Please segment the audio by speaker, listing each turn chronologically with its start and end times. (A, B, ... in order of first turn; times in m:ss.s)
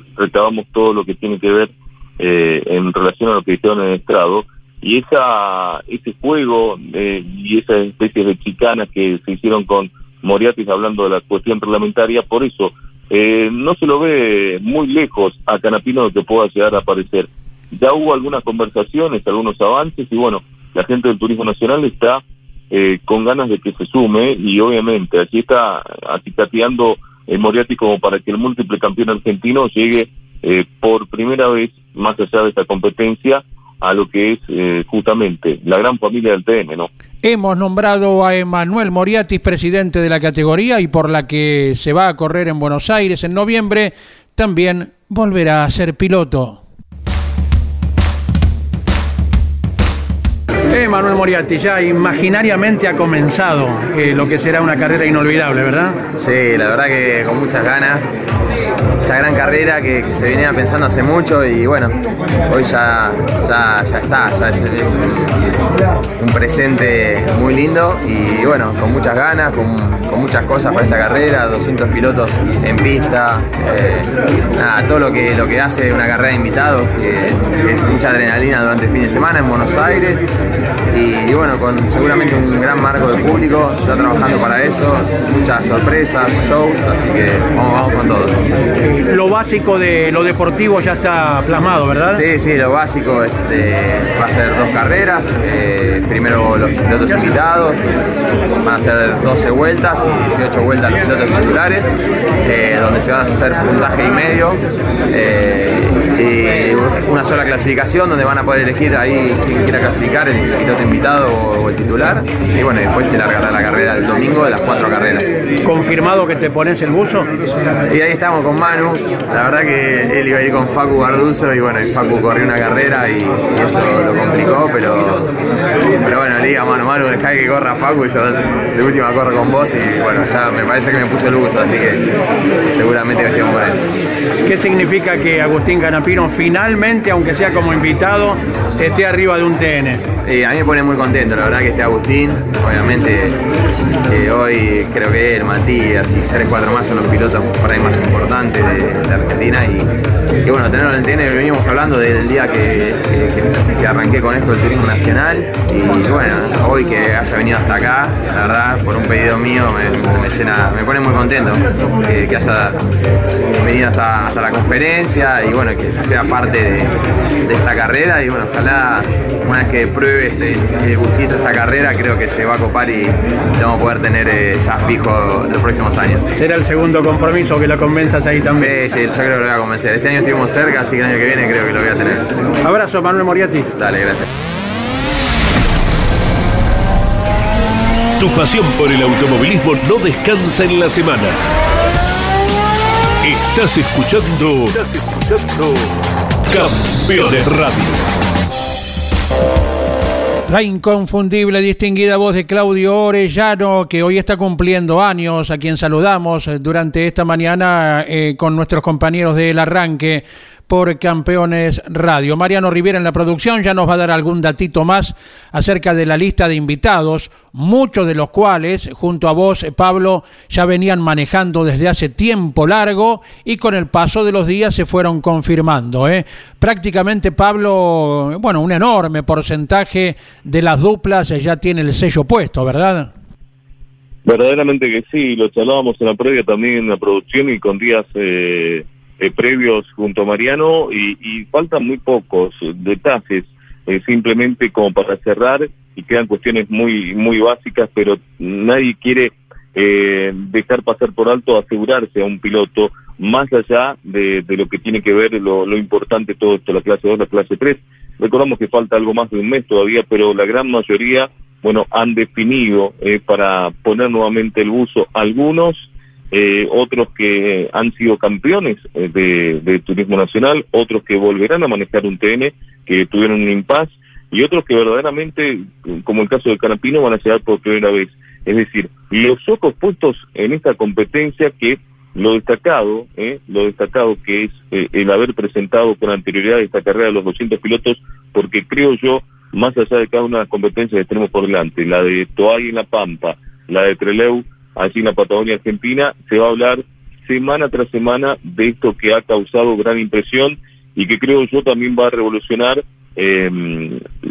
0:00.2-0:36.9 A
0:37.2-0:46.6 B
0:50.7-0:56.0 B
0:56.2-0:58.1 C
0:59.0-1:01.9 C
1:02.5-1:05.5 C
1:06.2-1:20.2 C
1:20.9-1:28.5 C
1:28.8-1:32.2 B
1:32.1-1:37.8 C
1:38.6-1:41.9 C
1:42.4-1:55.4 C
1:55.6-1:57.3 B
1:57.9-2:05.3 C
2:06.0-2:13.8 C
2:14.4-2:20.0 B
2:20.2-2:23.4 C
2:24.1-2:29.9 C
2:30.4-2:42.8 C
2:43.6-2:46.9 C
2:47.4-2:56.3 C
2:56.4-2:58.7 B
2:58.5-3:02.4 C
3:02.6-3:03.7 B
3:03.7-3:04.3 C
3:08.2-3:11.4 D
3:13.2-3:15.9 D
3:16.5-3:18.0 D
3:20.5-3:53.1 B
3:54.2-5:04.0 A